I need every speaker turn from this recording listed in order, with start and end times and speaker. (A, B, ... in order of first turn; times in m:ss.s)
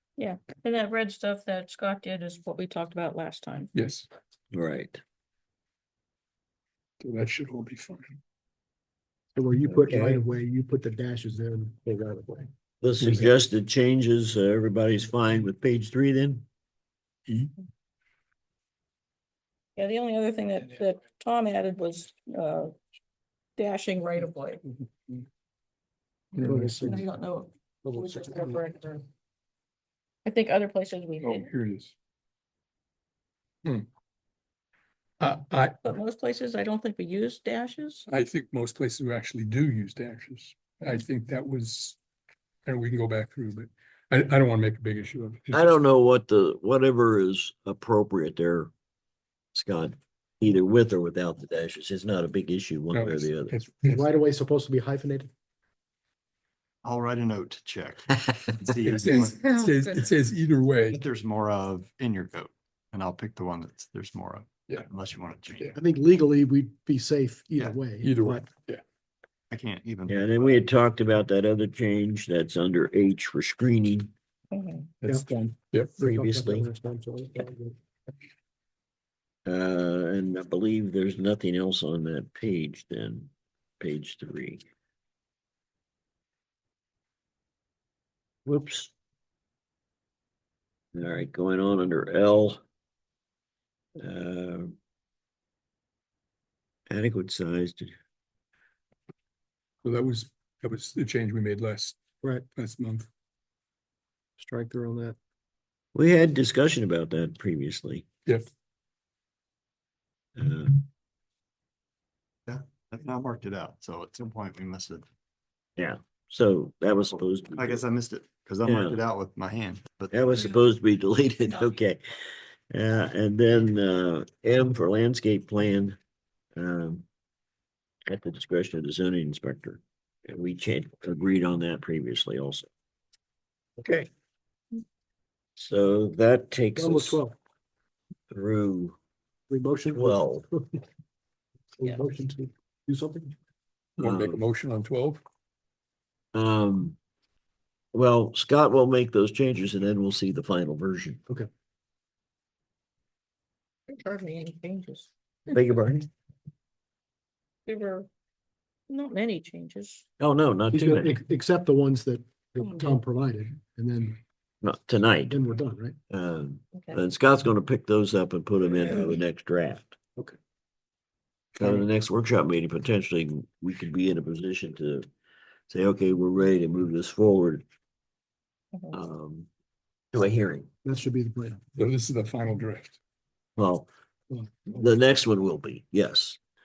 0:00.2-0:03.7 A
0:03.7-0:04.1 B
0:04.5-0:05.0 C
0:07.0-0:08.2 B
0:09.3-0:12.5 D
0:09.7-0:10.2 C
0:12.8-0:16.4 C
0:17.3-0:17.5 B
0:19.8-0:22.7 A
0:23.6-0:24.6 A
0:26.3-0:27.0 B
0:26.4-0:27.1 D
0:26.5-0:29.0 A
0:27.8-0:28.2 D
0:30.2-0:31.5 A
0:31.2-0:31.9 B
0:35.2-0:35.8 B
0:35.8-0:38.1 A
0:38.1-0:42.0 B
0:42.6-0:45.8 B
0:45.5-0:48.7 C
0:49.5-0:53.6 C
0:52.9-0:54.1 B
0:53.8-0:55.3 D
0:56.8-0:59.4 E
0:58.8-1:01.0 B
0:59.2-1:00.0 A
1:00.9-1:05.8 E
1:05.7-1:08.4 D
1:08.0-1:08.8 B
1:09.5-1:10.6 E
1:10.1-1:14.1 C
1:14.5-1:14.9 A
1:15.0-1:15.9 B
1:16.0-1:17.8 D
1:16.0-1:16.7 C
1:19.4-1:24.6 C
1:28.4-1:28.9 C
1:30.9-1:32.6 C
1:34.0-1:34.7 C
1:36.9-1:37.9 C
1:39.8-1:42.0 B
1:42.5-1:43.1 B
1:44.4-1:45.2 D
1:45.9-1:48.0 C
1:50.4-1:50.8 C
1:52.4-1:55.0 E
1:55.8-1:57.8 C
1:57.5-2:00.2 E
1:58.6-1:59.0 C
2:00.1-2:02.0 C
2:02.7-2:06.0 C
2:06.6-2:07.0 C
2:08.1-2:12.7 C
2:13.8-2:14.1 C
2:15.6-2:17.2 C
2:16.8-2:17.3 D
2:18.3-2:19.0 C
2:19.5-2:20.6 D
2:19.9-2:20.5 C
2:21.8-2:23.3 D
2:24.0-2:25.2 B
2:24.0-2:24.4 C
2:26.3-2:27.0 C
2:27.9-2:31.2 C
2:33.9-2:35.6 A
2:35.5-2:36.1 C
2:37.6-2:38.1 A
2:38.9-2:40.0 A
2:40.2-2:41.2 C
2:40.7-2:44.2 D
2:42.6-2:43.0 A
2:44.6-2:45.4 C
2:45.3-2:46.0 D
2:46.1-2:49.9 C
2:46.7-2:47.0 A
2:51.6-2:55.0 C
2:55.7-2:57.6 C
2:58.9-2:59.5 C
3:00.1-3:00.7 C
3:00.8-3:01.6 D
3:01.7-3:03.0 B
3:03.6-3:03.9 C
3:04.3-3:04.6 D
3:04.7-3:06.4 C